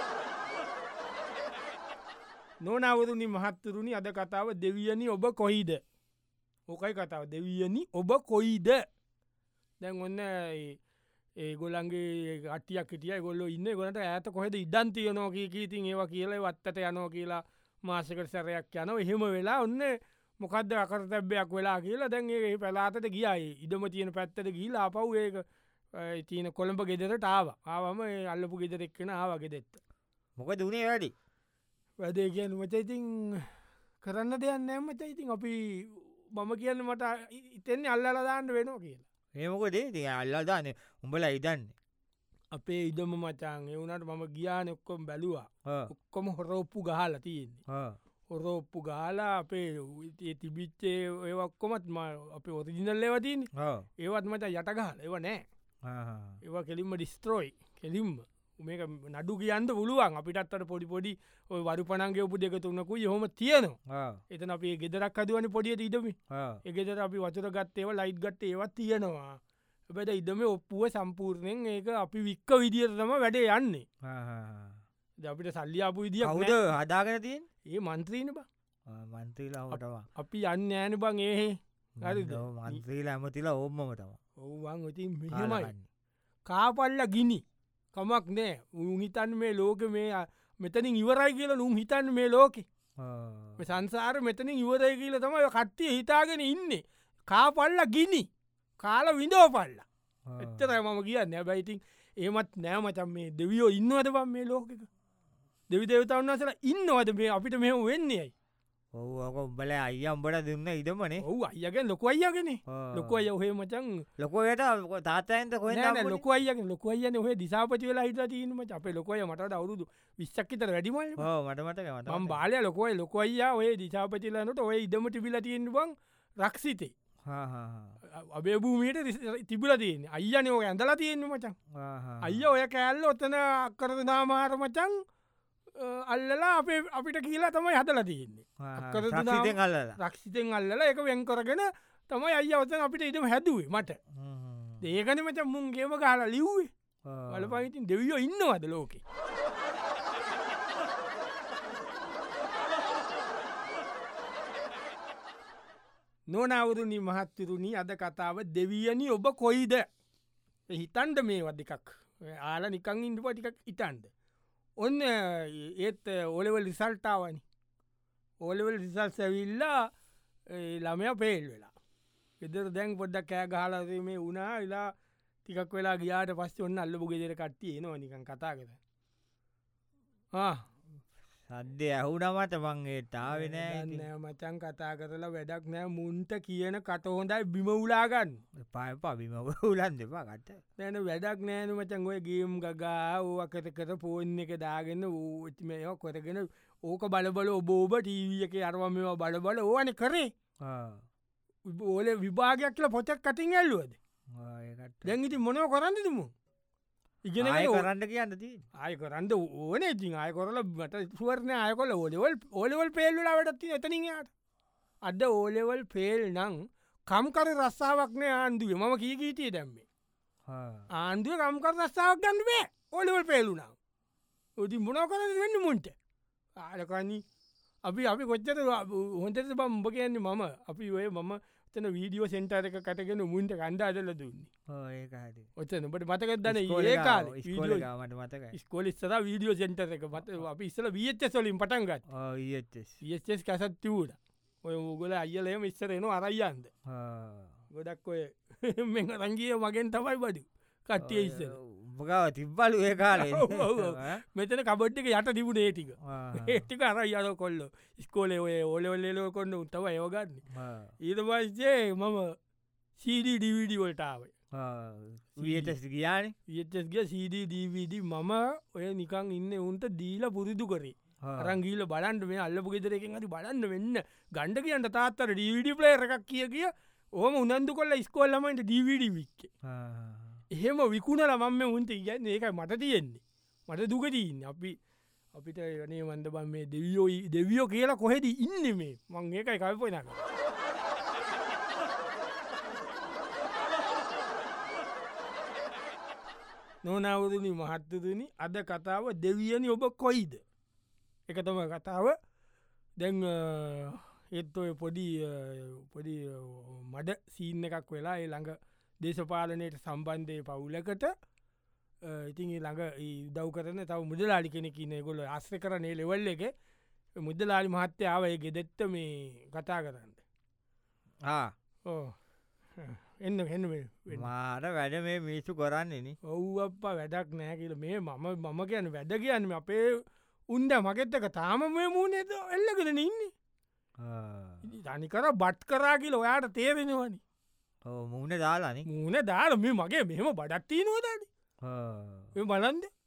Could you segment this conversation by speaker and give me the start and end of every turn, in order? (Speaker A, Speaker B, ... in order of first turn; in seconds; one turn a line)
Speaker A: 2.6-5.8
Speaker A: 6.7-8.8
Speaker A: 9.8-10.8
Speaker A: 11.4-29.8
Speaker B: 30.4-31.1
Speaker A: 32.0-33.5
Speaker A: 34.0-39.0
Speaker B: 39.3-41.7
Speaker A: 42.5-47.6
Speaker B: 47.7-48.0
Speaker A: 48.3-55.4
Speaker B: 53.5-53.9
Speaker B: 55.8-56.4
Speaker A: 56.4-63.8
Speaker B: 63.9-64.2
Speaker A: 64.3-69.4
Speaker B: 66.3-66.6
Speaker A: 69.9-73.8
Speaker B: 74.0-74.8
Speaker A: 75.2-76.5
Speaker B: 76.2-77.4
Speaker A: 77.7-78.5
Speaker B: 78.9-80.1
Speaker A: 79.7-82.8
Speaker B: 82.0-84.2
Speaker A: 84.4-85.7
Speaker B: 85.3-85.9
Speaker A: 86.5-87.4
Speaker A: 87.9-92.6
Speaker B: 93.0-93.7
Speaker A: 93.6-99.8
Speaker B: 100.3-100.7
Speaker A: 100.4-104.9
Speaker A: 105.7-108.3
Speaker B: 108.9-111.2
Speaker A: 111.2-114.0
Speaker B: 112.7-113.2
Speaker B: 114.2-116.2
Speaker A: 115.7-121.2
Speaker B: 121.2-122.4
Speaker A: 122.1-126.9
Speaker B: 127.3-128.0
Speaker A: 128.1-131.6
Speaker B: 131.7-132.4
Speaker A: 132.2-134.9
Speaker A: 135.8-144.0
Speaker B: 138.6-140.0
Speaker B: 144.1-144.9
Speaker A: 144.8-146.7
Speaker B: 147.1-147.6
Speaker A: 147.3-149.0
Speaker A: 156.3-159.8
Speaker A: 160.7-164.1
Speaker A: 164.8-167.4
Speaker A: 168.4-169.9
Speaker A: 170.5-171.7
Speaker A: 172.4-174.9
Speaker A: 175.4-178.8
Speaker A: 180.3-180.6
Speaker B: 181.5-184.1
Speaker A: 183.3-188.4
Speaker B: 188.6-190.6
Speaker A: 190.8-200.3
Speaker B: 200.6-201.0
Speaker A: 201.7-204.0
Speaker B: 204.3-205.2
Speaker A: 205.0-206.3
Speaker A: 207.2-207.9
Speaker B: 207.4-208.6
Speaker A: 208.8-214.3
Speaker A: 215.0-219.8
Speaker B: 220.5-220.9
Speaker A: 221.0-223.7
Speaker A: 224.6-225.9
Speaker A: 226.6-227.2
Speaker A: 227.8-234.5
Speaker B: 234.7-235.5
Speaker A: 235.6-237.9
Speaker B: 236.4-238.5
Speaker A: 238.5-242.0
Speaker B: 242.1-243.0
Speaker A: 243.0-246.7
Speaker B: 246.9-247.5
Speaker A: 247.7-251.6
Speaker B: 251.0-254.2
Speaker A: 253.1-260.4
Speaker B: 256.0-256.6
Speaker B: 260.5-260.9
Speaker A: 261.0-262.3
Speaker A: 263.0-264.3
Speaker B: 264.5-266.3
Speaker A: 265.4-265.7
Speaker A: 266.5-279.5
Speaker B: 271.2-271.6
Speaker B: 279.6-280.4
Speaker A: 280.5-284.8
Speaker A: 285.3-290.2
Speaker A: 296.8-300.4
Speaker A: 301.3-302.1
Speaker A: 303.0-311.1
Speaker A: 312.0-316.5
Speaker A: 317.2-320.2
Speaker A: 321.9-322.1
Speaker A: 322.8-324.3
Speaker B: 324.1-326.2
Speaker A: 326.2-333.3
Speaker B: 334.0-334.6
Speaker A: 334.6-337.2
Speaker B: 337.8-338.9
Speaker A: 338.9-341.3
Speaker B: 341.6-342.3
Speaker A: 342.3-342.9